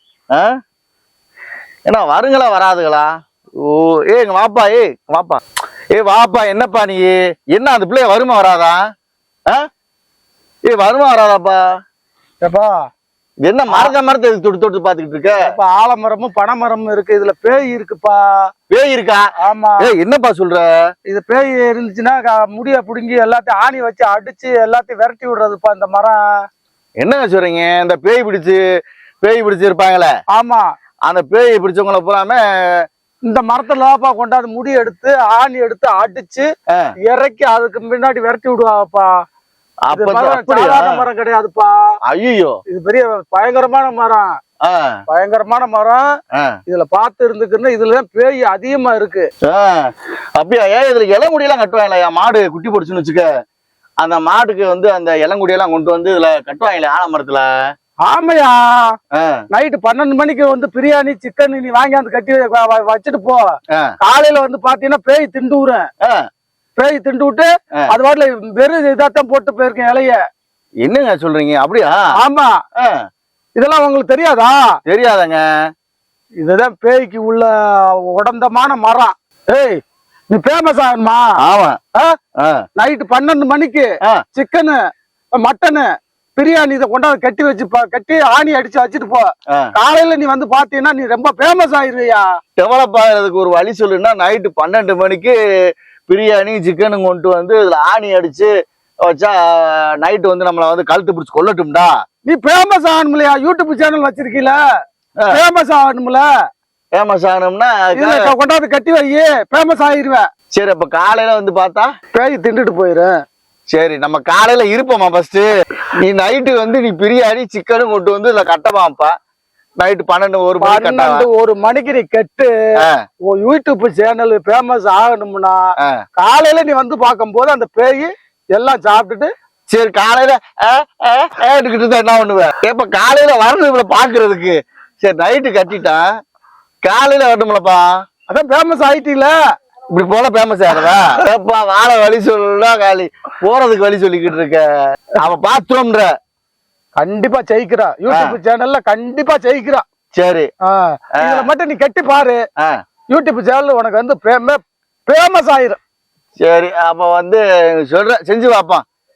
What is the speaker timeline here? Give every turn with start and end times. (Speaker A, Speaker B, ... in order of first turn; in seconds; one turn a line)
Speaker A: 1.9-3.1
Speaker A: 3.6-5.4
Speaker A: 6.0-8.8
Speaker A: 10.7-11.6
Speaker B: 12.4-12.7
Speaker A: 13.5-15.4
Speaker B: 15.4-18.2
Speaker A: 18.7-19.2
Speaker B: 19.4-19.8
Speaker A: 19.8-20.7
Speaker B: 21.1-26.2
Speaker A: 27.0-28.6
Speaker A: 29.2-30.1
Speaker B: 30.3-30.6
Speaker A: 31.1-32.8
Speaker B: 33.3-36.5
Speaker B: 37.0-39.1
Speaker A: 39.9-41.0
Speaker B: 39.9-41.7
Speaker A: 42.1-42.5
Speaker B: 42.7-44.3
Speaker A: 44.6-44.9
Speaker B: 45.1-46.0
Speaker B: 46.7-49.3
Speaker A: 49.5-53.3
Speaker A: 54.0-57.5
Speaker B: 58.0-58.8
Speaker A: 59.1-59.4
Speaker B: 59.5-65.8
Speaker B: 66.8-70.2
Speaker A: 70.8-72.1
Speaker B: 72.2-72.6
Speaker B: 73.6-74.6
Speaker A: 74.9-75.4
Speaker B: 76.4-77.5
Speaker B: 78.1-81.2
Speaker A: 81.4-81.8
Speaker B: 82.8-84.8
Speaker B: 85.4-92.2
Speaker A: 92.6-95.4
Speaker A: 96.1-98.5
Speaker A: 99.1-101.9
Speaker B: 102.3-104.6
Speaker B: 105.3-106.3
Speaker A: 106.9-108.2
Speaker B: 108.0-110.2
Speaker A: 110.5-111.9
Speaker B: 112.1-113.1
Speaker A: 113.7-115.5
Speaker A: 116.0-119.1
Speaker A: 119.8-121.3
Speaker B: 120.6-122.5
Speaker B: 123.3-125.6
Speaker B: 126.2-129.3
Speaker A: 129.7-136.0
Speaker A: 136.8-137.9
Speaker B: 138.3-139.3
Speaker A: 139.9-144.7
Speaker A: 145.2-146.1
Speaker B: 147.0-149.8
Speaker A: 148.1-148.3
Speaker A: 150.1-150.5
Speaker B: 150.7-152.4
Speaker A: 151.2-151.5
Speaker B: 153.1-155.8
Speaker A: 156.4-158.8